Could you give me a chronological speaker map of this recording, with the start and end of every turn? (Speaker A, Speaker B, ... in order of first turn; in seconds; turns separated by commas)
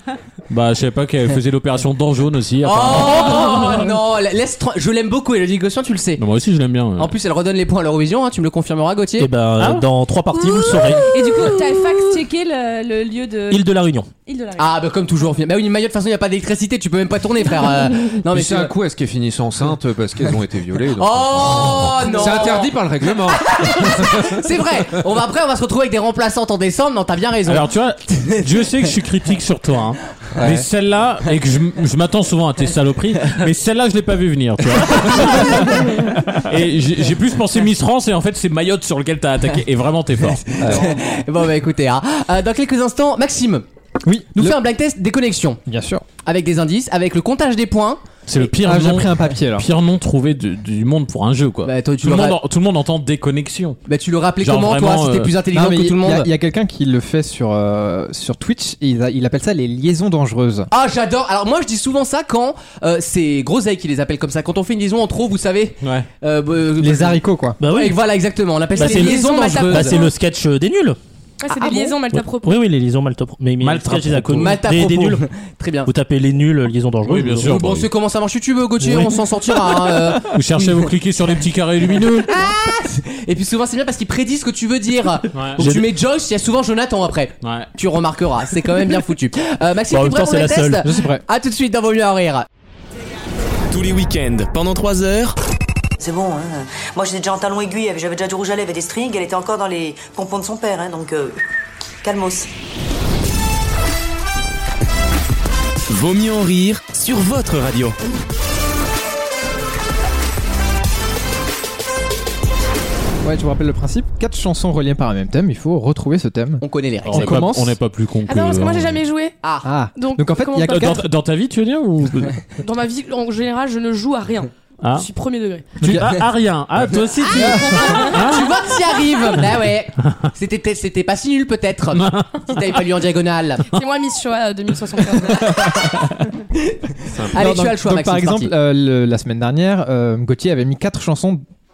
Speaker A: 0.5-3.6, Speaker B: 2.6-6.2, Speaker C: 3.4-3.8, Speaker A: 6.2-7.2, Speaker B: 7.0-9.3, Speaker D: 9.2-11.1, Speaker A: 9.6-9.9, Speaker C: 10.9-13.7, Speaker D: 13.5-14.1, Speaker C: 14.2-14.8, Speaker B: 14.6-18.7, Speaker E: 18.2-24.4, Speaker B: 21.0-28.4, Speaker A: 27.5-40.4, Speaker E: 30.4-30.7, Speaker B: 40.5-43.6, Speaker E: 40.6-41.0, Speaker F: 44.0-44.6, Speaker B: 44.4-45.6, Speaker F: 45.7-46.0, Speaker B: 46.2-48.0, Speaker A: 48.3-53.8, Speaker F: 48.6-49.7, Speaker B: 51.7-52.4, Speaker B: 53.9-56.3, Speaker A: 54.4-55.3, Speaker F: 55.5-60.7, Speaker B: 60.7-70.1, Speaker A: 65.8-66.1, Speaker F: 66.8-67.6, Speaker D: 67.6-68.0, Speaker D: 68.7-71.0, Speaker G: 68.8-70.1, Speaker G: 71.4-72.6, Speaker B: 71.5-72.0, Speaker D: 72.1-75.2, Speaker A: 73.6-74.6, Speaker B: 74.3-75.9, Speaker D: 75.8-77.6, Speaker A: 77.1-77.9, Speaker B: 77.5-80.4, Speaker D: 78.8-79.1, Speaker A: 80.3-82.3, Speaker B: 82.2-92.5, Speaker A: 85.3-85.6, Speaker D: 85.6-85.9, Speaker A: 87.4-87.7, Speaker D: 89.9-90.9, Speaker F: 90.8-91.2, Speaker H: 93.7-95.4, Speaker I: 96.0-101.4, Speaker I: 102.0-102.5, Speaker H: 105.9-108.0, Speaker F: 113.2-117.8, Speaker B: 116.6-117.3, Speaker A: 117.0-119.0, Speaker G: 118.3-119.4, Speaker B: 119.4-119.7, Speaker F: 119.6-121.0, Speaker G: 120.0-121.0, Speaker A: 120.7-122.5, Speaker G: 122.5-125.7, Speaker A: 124.8-125.1, Speaker A: 125.8-128.5, Speaker F: 125.8-126.2, Speaker G: 127.3-128.4, Speaker F: 127.3-128.0, Speaker B: 127.7-133.7, Speaker A: 131.9-132.8, Speaker G: 133.7-135.6, Speaker F: 135.3-135.9, Speaker E: 137.1-137.5, Speaker B: 137.3-138.5, Speaker F: 137.3-141.4